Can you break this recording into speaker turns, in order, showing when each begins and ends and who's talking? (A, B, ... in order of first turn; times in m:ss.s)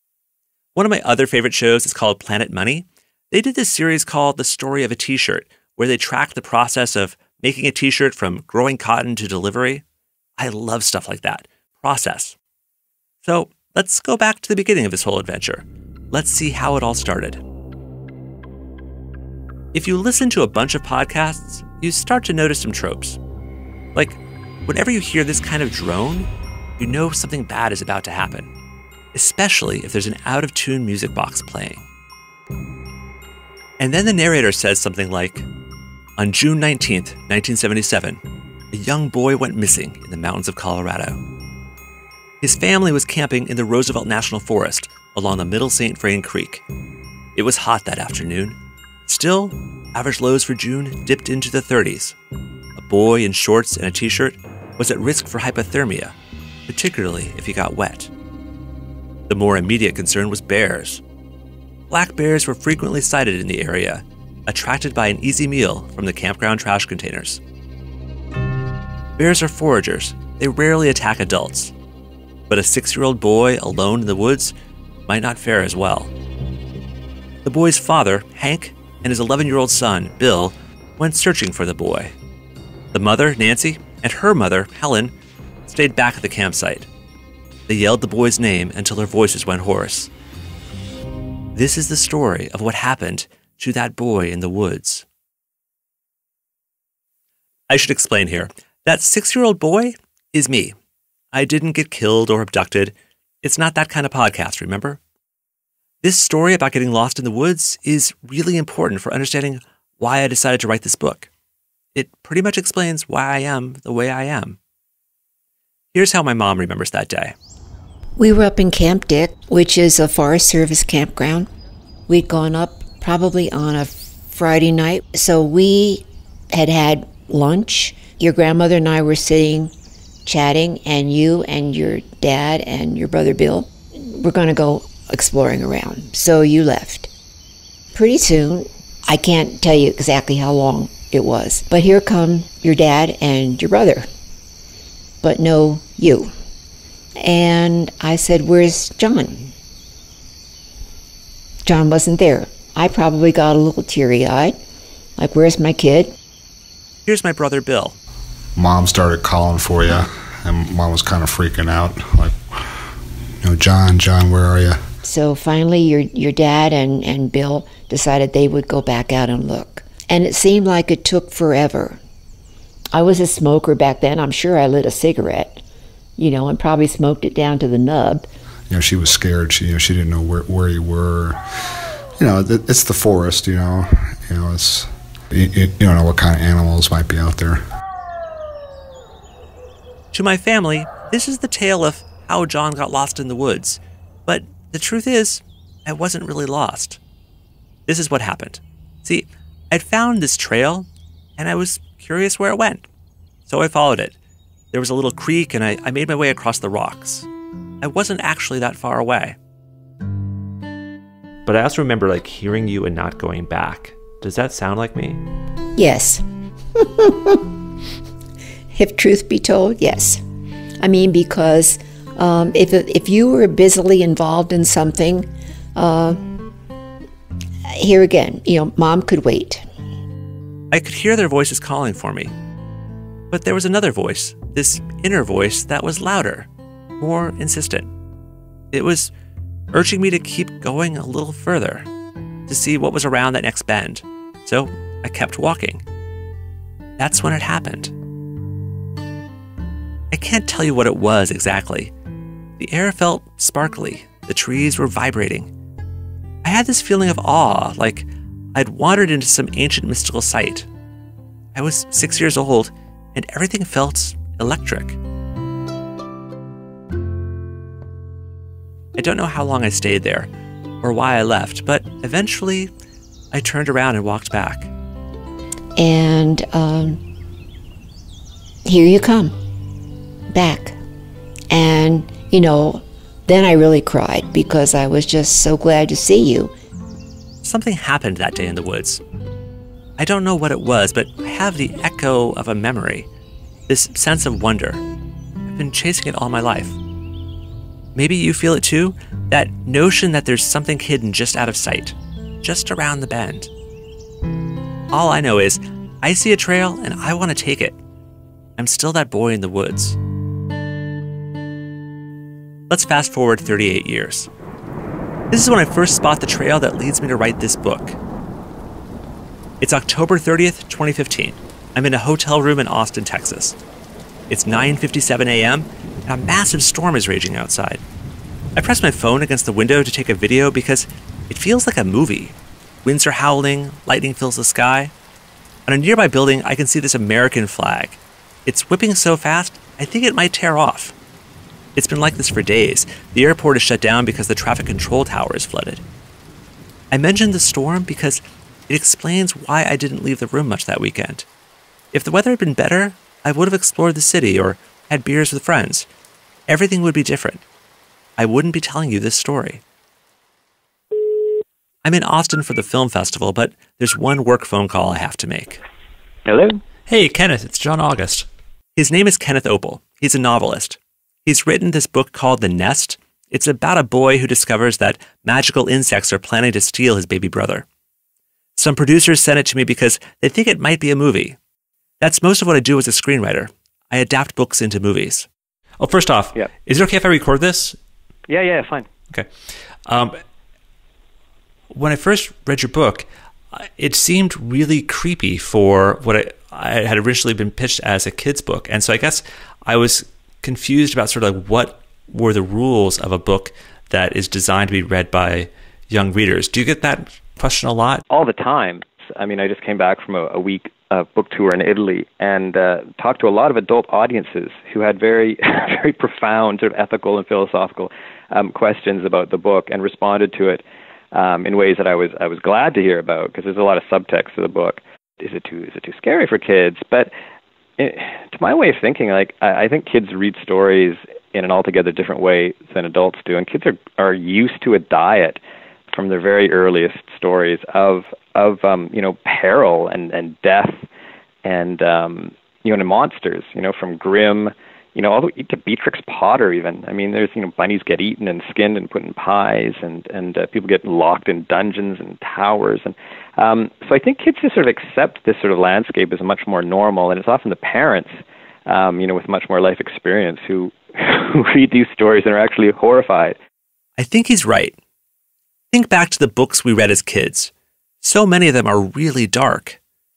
0:00.7-0:09.8 A
0:10.4-0:12.4 A
0:13.2-0:17.4 A
0:19.7-0:23.2 A
0:23.9-0:28.5 A
0:29.1-0:31.9 A
0:33.8-0:35.4 A
0:36.2-0:41.2 A
0:42.4-0:46.6 A
0:47.3-0:52.2 A
0:52.7-0:56.2 A
0:56.7-0:58.1 A
0:59.3-1:01.0 A
1:01.9-1:07.4 A
1:09.2-1:11.7 A
1:12.5-1:14.5 A
1:15.1-1:16.1 A
1:17.4-1:22.1 A
1:22.9-1:25.1 A
1:25.6-1:26.9 A
1:27.7-1:30.1 A
1:31.5-1:35.0 A
1:37.7-1:40.7 A
1:41.3-1:45.0 A
1:46.0-1:51.3 A
1:51.9-1:54.6 A
1:55.9-1:57.3 A
1:58.2-2:01.5 B
2:02.1-2:09.7 B
2:10.2-2:17.1 B
2:17.9-2:24.0 B
2:25.2-2:26.3 B
2:27.2-2:29.5 B
2:31.6-2:34.5 B
2:35.2-2:36.1 B
2:37.0-2:38.0 A
2:38.6-2:42.3 C
2:43.4-2:44.8 C
2:45.0-2:52.0 B
2:52.9-2:55.6 B
2:56.2-2:58.2 B
2:58.7-3:01.4 C
3:02.2-3:07.6 C
3:10.1-3:17.0 A
3:17.9-3:22.9 A
3:23.4-3:24.2 A
3:24.7-3:27.3 A
3:27.8-3:29.4 A
3:31.4-3:35.2 A
3:35.8-3:36.2 B
3:36.8-3:37.4 B
3:38.7-3:40.2 B
3:40.8-3:46.3 B
3:47.8-3:49.6 B
3:50.7-3:52.3 A
3:53.3-3:57.9 A
3:58.7-3:59.1 A
3:59.7-4:01.9 A
4:02.5-4:05.8 A
4:07.0-4:07.9 A
4:10.1-4:11.9 A
4:12.6-4:15.5 A
4:16.4-4:20.7 A
4:21.5-4:25.0 A
4:29.0-4:30.3 A
4:30.8-4:32.7 A
4:33.3-4:34.7 A
4:35.8-4:37.0 B
4:38.6-4:39.3 B
4:40.3-4:40.7 B
4:41.5-4:46.5 B
4:47.4-4:49.0 A
4:50.0-4:53.1 A
4:53.7-4:54.8 A
4:55.4-4:56.8 A
4:57.9-5:03.5 A
5:04.9-5:07.8 A
5:08.6-5:10.0 A
5:12.7-5:14.3 A
5:15.3-5:18.0 A
5:19.6-5:23.6 A
5:24.3-5:27.8 A
5:28.6-5:34.9 A
5:35.7-5:40.9 A
5:41.8-5:45.8 A
5:46.9-5:51.3 A
5:51.9-5:55.9 A
5:56.5-5:57.4 A
5:58.2-5:59.6 A
6:01.8-6:05.6 A
6:06.2-6:06.6 D
6:06.9-6:17.6 A
6:18.6-6:21.4 A
6:22.0-6:25.3 A
6:25.8-6:27.8 A
6:28.3-6:28.9 D
6:29.8-6:30.2 A
6:31.7-6:48.0 A
6:48.1-7:07.1 D
7:07.8-7:15.4 D
7:15.9-7:20.8 D
7:21.4-7:38.1 D
7:38.7-7:43.4 D
7:44.0-7:44.8 A
7:45.7-7:49.8 A